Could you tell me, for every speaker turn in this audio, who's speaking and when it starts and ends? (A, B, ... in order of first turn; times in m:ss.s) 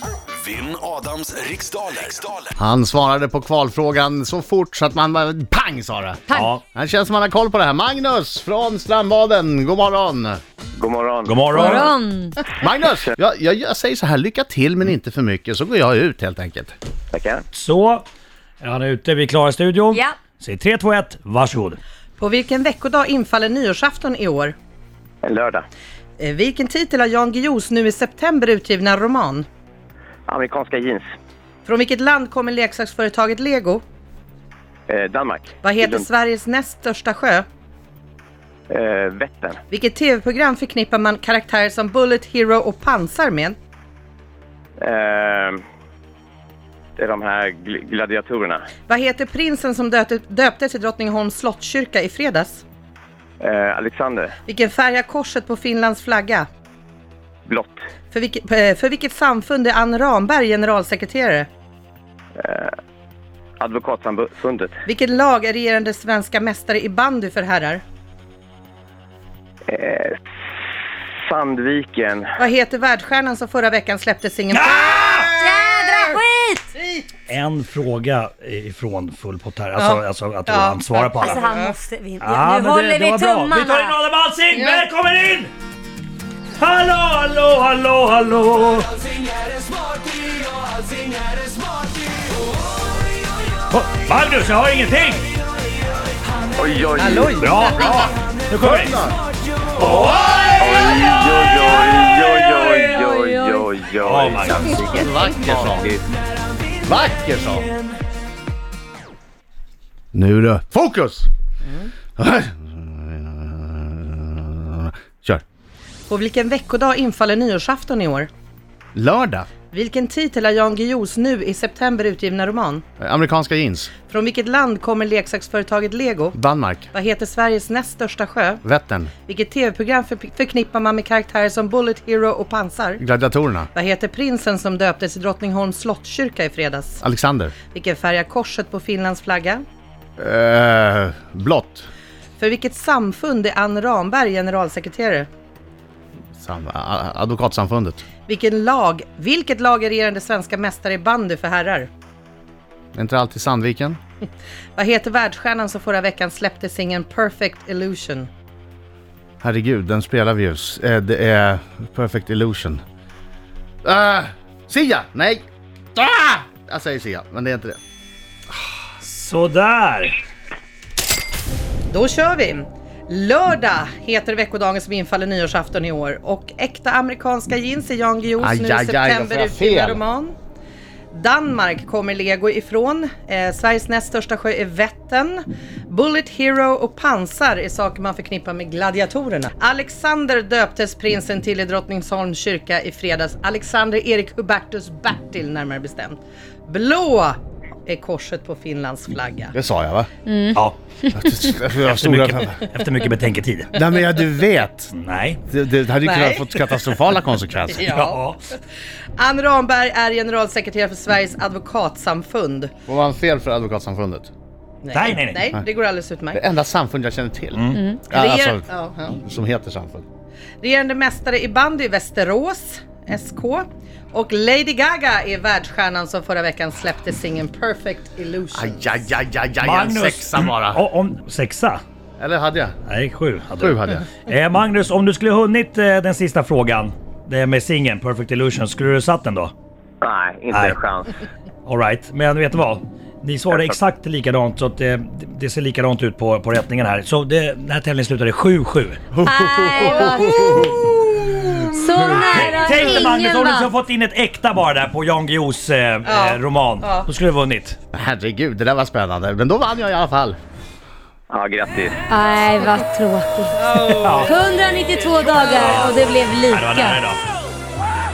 0:00.3-0:02.5 A
0:02.6-0:10.4 B
0:06.3-0:06.6 C
0:10.8-0:11.7 D
0:11.2-0:11.9 C
0:11.5-0:12.4 E
0:12.5-0:16.7 B
0:17.1-0:17.4 D
0:17.5-0:18.0 C
0:18.6-0:21.8 C
0:22.2-0:24.6 F
0:25.2-0:25.6 D
0:26.2-0:29.5 F
0:30.3-0:31.0 D
0:31.6-0:33.8 F
0:34.9-0:36.0 D
0:35.6-0:37.4 F
0:38.7-0:39.6 D
0:39.7-0:43.6 F
0:44.8-0:45.6 D
0:47.0-0:48.7 D
0:48.9-0:52.6 F
0:53.4-0:54.3 D
0:54.4-0:56.5 F
0:57.4-0:57.8 D
0:58.1-1:01.5 F
1:02.4-1:02.7 D
1:03.6-1:04.8 D
1:04.8-1:07.8 F
1:09.7-1:10.2 D
1:11.2-1:12.3 D
1:12.4-1:16.2 F
1:14.5-1:15.4 C
1:15.4-1:16.7 E
1:17.3-1:21.4 C
1:19.8-1:21.8 F
1:21.2-1:24.0 E
1:22.2-1:25.5 C
1:24.5-1:24.8 F
1:26.6-1:28.9 C
1:33.7-1:35.3 C
1:36.6-1:37.4 D
1:37.0-1:38.1 F
1:37.4-1:39.0 C
1:38.6-1:39.2 B
1:39.8-1:40.3 C
1:40.6-1:46.0 D
1:44.0-1:45.1 C
1:44.8-1:45.9 B
1:46.8-1:47.7 B
1:50.1-1:51.3 B
1:51.6-1:51.9 F
1:52.2-1:55.4 B
1:56.1-1:58.3 F
1:58.9-1:59.5 B
1:59.7-2:02.8 F
2:03.0-2:03.9 B
2:04.0-2:06.4 F
2:06.3-2:06.9 B
2:06.9-2:08.6 F
2:08.6-2:09.1 B
2:09.2-2:13.0 F
2:13.0-2:13.7 B
2:13.7-2:17.0 F
2:17.0-2:17.5 B
2:17.7-2:19.6 F
2:20.2-2:21.9 B
2:22.4-2:25.3 F
2:26.4-2:28.0 B
2:28.3-2:31.9 F
2:32.9-2:34.0 B
2:34.8-2:38.3 F
2:39.4-2:42.8 B
2:43.8-2:45.4 B
2:45.9-2:47.8 B
2:49.0-2:50.2 C
2:51.9-3:00.3 F
2:58.4-3:00.0 B
3:01.1-3:19.5 F
3:19.5-3:20.1 B
3:20.2-3:20.6 E
3:20.5-3:20.8 C
3:21.1-3:22.6 B
3:21.8-3:23.7 C
3:23.7-3:24.9 B
3:24.9-3:25.4 C
3:25.5-3:27.9 B
3:26.0-3:26.9 F
3:27.7-3:28.2 F
3:27.8-3:28.4 C
3:29.2-3:32.7 F
3:32.9-3:34.3 B
3:34.8-3:36.4 F
3:34.9-3:35.4 C
3:36.3-3:40.0 B
3:37.5-3:37.8 C
3:38.1-3:39.1 F
3:40.6-3:49.0 F
3:48.5-3:50.8 B
3:49.6-3:51.8 C
3:52.2-3:52.8 B
3:52.8-3:59.5 C
3:53.6-3:54.1 B
4:00.0-4:01.1 D
4:01.7-4:09.1 C
4:09.1-4:12.8 B
4:09.2-4:11.0 E
4:09.8-4:10.4 F
4:11.7-4:13.7 E
4:12.2-4:17.8 C
4:16.0-4:17.1 F
4:17.9-4:20.4 B
4:21.3-4:22.0 D
4:22.1-4:23.6 E
4:23.6-4:24.4 F
4:23.9-4:24.3 C
4:24.2-4:27.0 E
4:24.9-4:26.2 F
4:25.2-4:27.2 C